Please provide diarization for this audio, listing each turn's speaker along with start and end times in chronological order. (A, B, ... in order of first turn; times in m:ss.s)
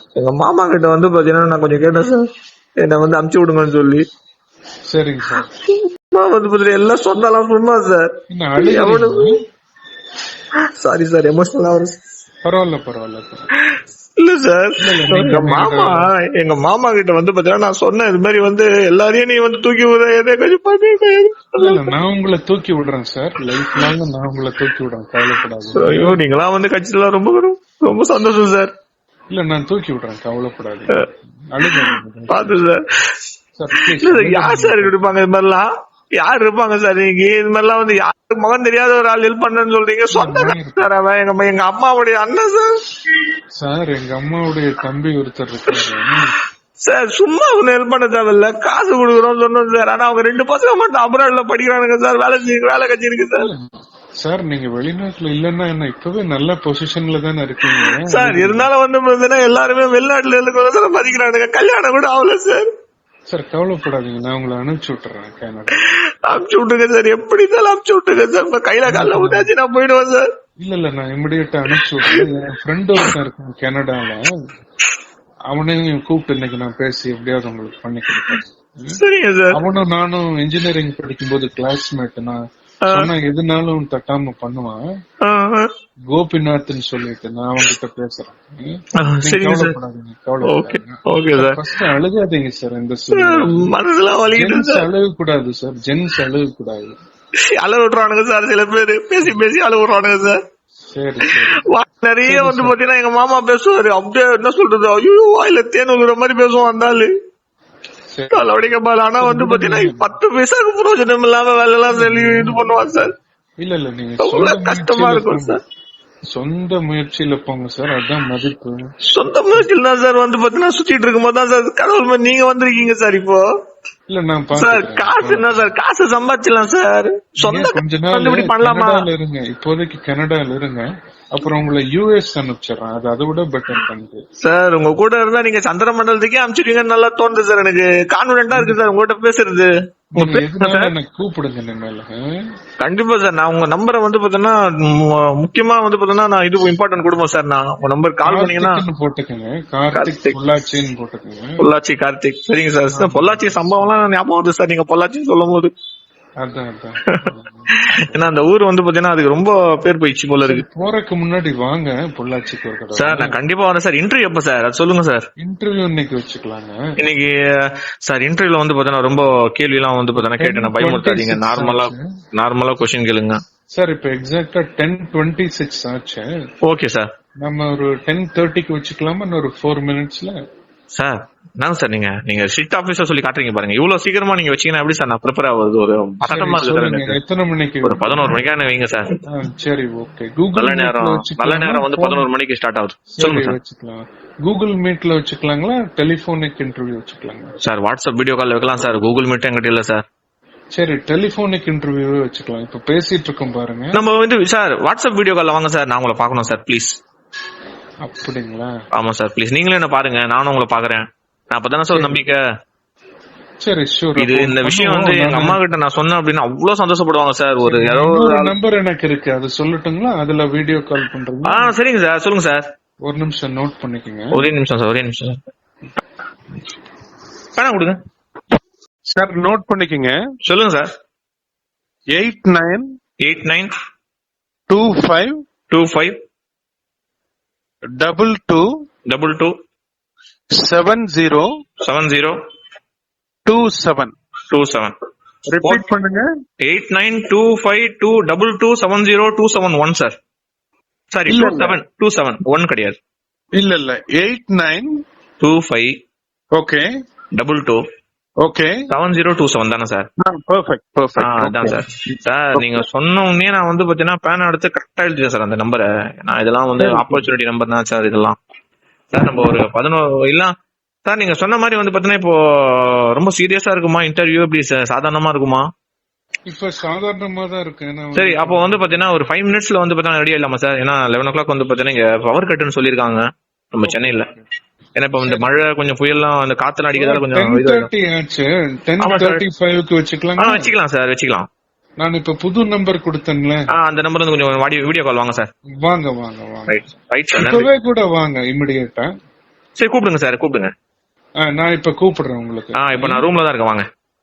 0:00.2-0:02.2 A
0:02.8-0:04.0 A
0:04.9-0:05.5 B
0:05.7-0:09.3 A
0:08.3-0:09.4 B
0:10.8-0:12.0 A
0:12.4-0:13.5 B
0:13.7-0:21.9 A
0:14.8-0:16.1 B
0:21.6-0:26.2 B
0:25.7-0:28.7 A
0:29.3-0:32.7 B
0:31.7-0:32.8 A
0:33.6-0:35.2 B
0:34.0-0:35.7 A
0:36.2-0:42.7 A
0:40.1-0:40.9 B
0:43.6-0:46.4 B
0:46.8-0:53.5 A
0:53.4-0:53.7 B
0:54.2-0:58.7 B
0:57.8-1:02.7 A
1:03.3-1:05.8 B
1:06.3-1:10.2 A
1:08.8-1:09.5 B
1:10.6-1:14.3 B
1:11.7-1:12.2 A
1:15.5-1:19.0 B
1:19.0-1:19.5 A
1:19.5-1:24.8 B
1:22.8-1:23.1 A
1:25.2-1:25.7 A
1:26.1-1:33.7 B
1:29.0-1:29.7 A
1:30.4-1:31.6 A
1:33.1-1:34.9 A
1:34.3-1:36.9 B
1:37.5-1:40.4 A
1:40.9-1:41.6 B
1:41.6-1:47.1 A
1:42.2-1:42.7 B
1:48.1-1:48.5 B
1:48.3-1:53.1 A
1:49.2-1:50.1 B
1:51.9-1:53.0 B
1:53.6-1:55.6 B
1:54.2-1:55.6 A
1:56.3-1:58.8 B
1:59.1-2:03.4 A
2:04.1-2:05.7 B
2:04.5-2:09.0 A
2:07.4-2:14.2 B
2:14.4-2:20.9 A
2:18.5-2:18.9 B
2:20.1-2:22.2 B
2:22.8-2:28.8 A
2:28.2-2:31.7 B
2:29.9-2:30.4 A
2:31.6-2:35.7 A
2:32.9-2:33.9 B
2:36.4-2:38.4 B
2:37.9-2:40.6 A
2:40.4-2:43.4 B
2:43.0-2:45.2 A
2:45.4-2:46.8 B
2:47.0-2:47.3 A
2:48.0-2:53.3 A
2:50.2-2:52.1 B
2:53.7-2:56.3 B
2:56.6-2:57.1 A
2:57.4-3:00.3 B
3:00.9-3:07.2 A
3:06.2-3:08.4 B
3:07.8-3:09.1 A
3:09.3-3:12.3 B
3:10.6-3:13.5 A
3:13.1-3:17.5 B
3:17.6-3:20.0 A
3:20.7-3:24.0 B
3:23.9-3:27.0 A
3:28.0-3:28.7 B
3:28.9-3:32.4 A
3:31.9-3:32.2 B
3:33.6-3:35.6 B
3:34.2-3:38.5 A
3:37.6-3:41.7 B
3:41.5-3:42.6 A
3:43.0-3:44.4 B
3:44.3-3:45.4 A
3:47.6-3:48.0 A
3:49.1-3:50.2 B
3:50.4-3:50.9 A
3:52.1-3:52.9 B
3:53.2-3:53.7 A
3:54.7-3:55.4 B
3:55.7-3:56.1 A
3:58.0-3:58.7 B
3:59.1-3:59.5 A
4:00.5-4:01.5 B
4:01.8-4:02.3 A
4:03.4-4:04.1 B
4:04.5-4:04.9 A
4:05.5-4:06.2 B
4:06.6-4:10.1 A
4:11.1-4:13.0 A
4:11.3-4:11.8 B
4:13.6-4:15.0 B
4:15.4-4:15.9 A
4:16.5-4:16.8 B
4:17.4-4:17.8 A
4:18.4-4:18.8 B
4:18.9-4:20.0 A
4:20.2-4:22.8 B
4:21.2-4:28.4 A
4:26.8-4:27.3 B
4:29.1-4:30.5 A
4:31.0-4:35.6 A
4:36.5-4:39.1 B
4:38.2-4:43.2 A
4:43.7-4:44.3 A
4:43.8-4:44.4 B
4:45.0-4:47.9 A
4:45.2-4:45.5 B
4:47.0-4:50.7 B
4:49.0-4:49.4 A
4:50.4-4:51.5 A
4:52.0-4:53.7 B
4:53.8-4:55.5 A
4:55.8-4:59.1 B
4:56.7-4:57.7 A
4:59.8-5:00.7 A
5:01.4-5:03.2 B
5:02.8-5:03.8 A